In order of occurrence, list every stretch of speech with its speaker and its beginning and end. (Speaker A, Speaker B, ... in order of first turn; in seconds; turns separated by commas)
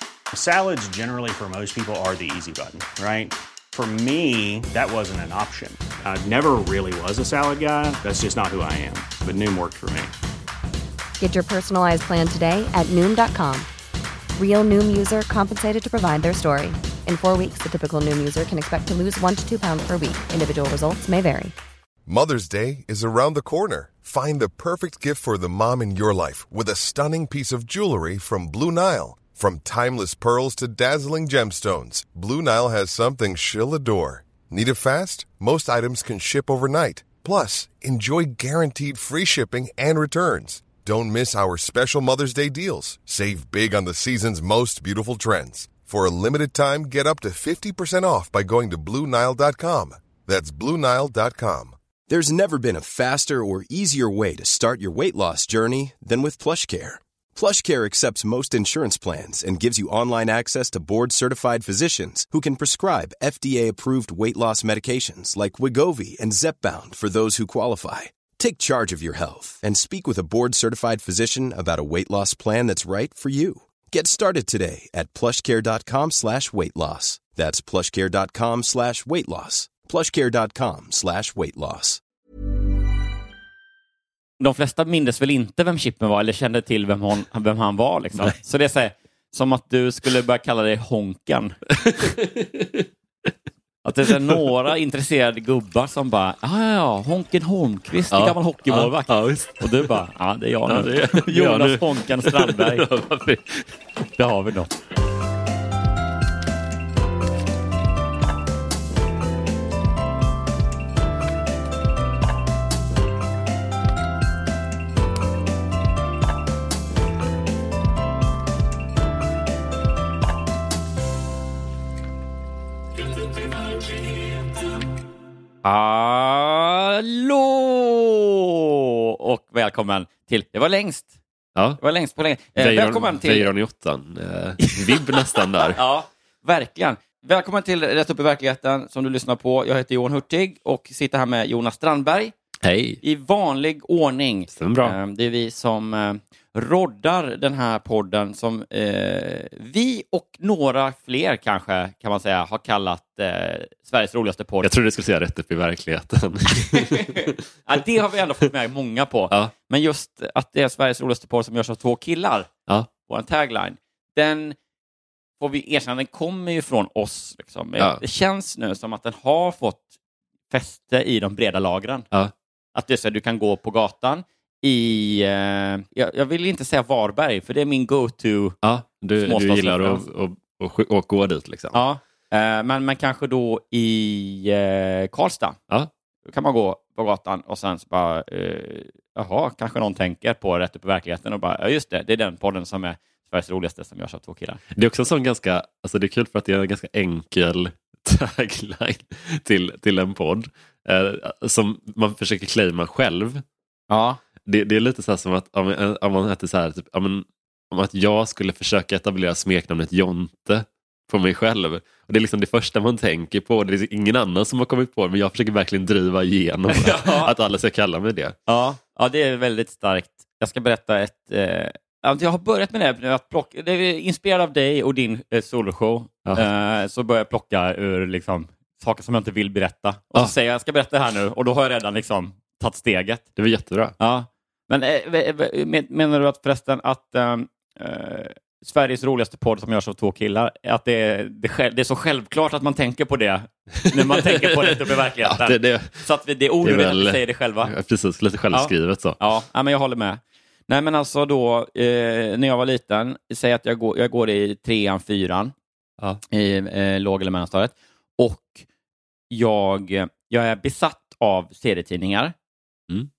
Speaker A: 0.3-10.1, Speaker B: 11.2-13.7, Speaker B: 14.4-21.5, Speaker C: 22.1-51.7, Speaker D: 52.1-82.0, Speaker E: 84.4-91.5, Speaker F: 91.7-92.8, Speaker E: 93.8-102.8, Speaker F: 98.1-99.9, Speaker F: 100.7-103.7, Speaker E: 104.2-104.7, Speaker E: 125.6-131.1, Speaker F: 131.5-131.8, Speaker E: 131.8-133.5, Speaker F: 132.6-135.8, Speaker E: 134.6-142.3, Speaker F: 142.6-143.0, Speaker E: 143.0-154.7, Speaker F: 144.5-144.9, Speaker F: 154.6-157.3, Speaker E: 156.7-162.5, Speaker E: 163.1-164.6, Speaker E: 165.4-169.8, Speaker E: 170.5-172.1, Speaker E: 172.7-178.6, Speaker F: 178.6-181.8, Speaker E: 179.2-180.0, Speaker E: 181.7-185.6, Speaker E: 186.3-194.6, Speaker F: 194.7-203.4, Speaker E: 203.9-204.2, Speaker F: 204.4-218.3, Speaker E: 216.7-217.3, Speaker E: 218.5-233.2, Speaker F: 233.4-233.9, Speaker E: 234.0-247.7, Speaker F: 243.8-246.1, Speaker F: 246.6-249.2, Speaker E: 248.5-255.5, Speaker E: 256.3-258.6, Speaker E: 259.3-262.3